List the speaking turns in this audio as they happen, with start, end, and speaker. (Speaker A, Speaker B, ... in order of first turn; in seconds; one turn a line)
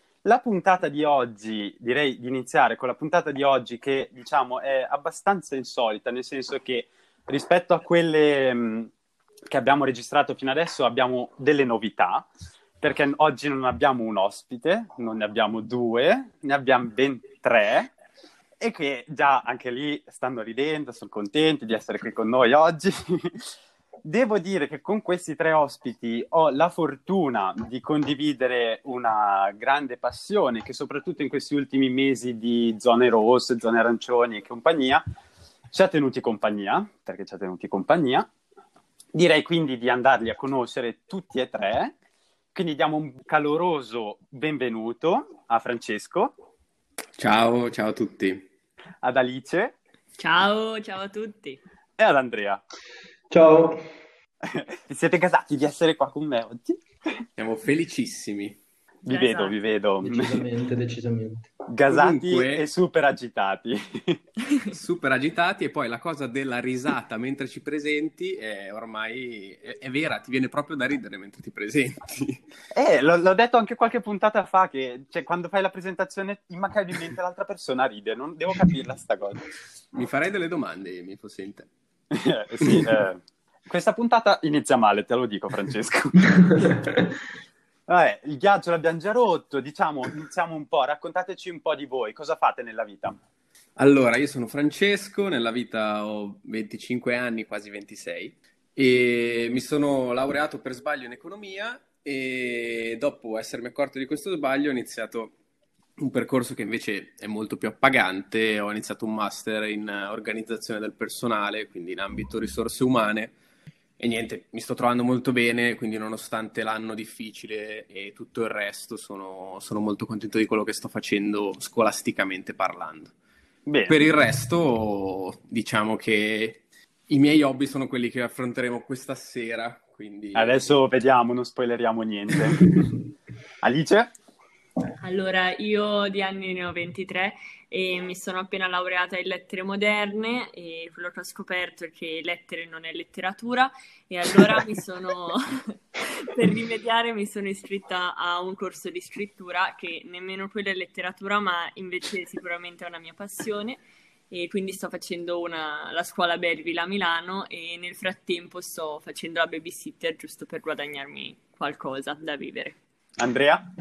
Speaker A: 0.2-8.9
Speaker A: 9.5-12.3
Speaker A: 12.8-17.9
Speaker A: 18.6-23.5
Speaker A: 24.0-35.0
Speaker A: 35.7-38.3
Speaker A: 39.1-41.9
Speaker A: 42.5-46.3
Speaker B: 47.2-48.5
Speaker A: 49.0-49.7
Speaker C: 50.2-51.6
Speaker A: 52.0-52.6
Speaker D: 53.3-53.8
Speaker A: 54.4-57.2
Speaker B: 57.4-58.6
Speaker A: 59.0-60.5
Speaker C: 59.1-59.5
Speaker D: 60.0-61.5
Speaker A: 61.7-64.2
Speaker B: 61.9-62.6
Speaker B: 64.7-72.4
Speaker A: 72.7-79.4
Speaker B: 79.9-81.7
Speaker A: 82.1-86.8
Speaker B: 82.6-82.9
Speaker D: 86.6-87.0
Speaker A: 87.9-93.2
Speaker B: 93.8-105.3
Speaker B: 106.0-113.3
Speaker B: 114.0-123.1
Speaker A: 123.7-124.0
Speaker B: 123.9-130.7
Speaker A: 130.3-132.8
Speaker A: 133.6-134.1
Speaker C: 135.0-162.8
Speaker A: 163.2-163.7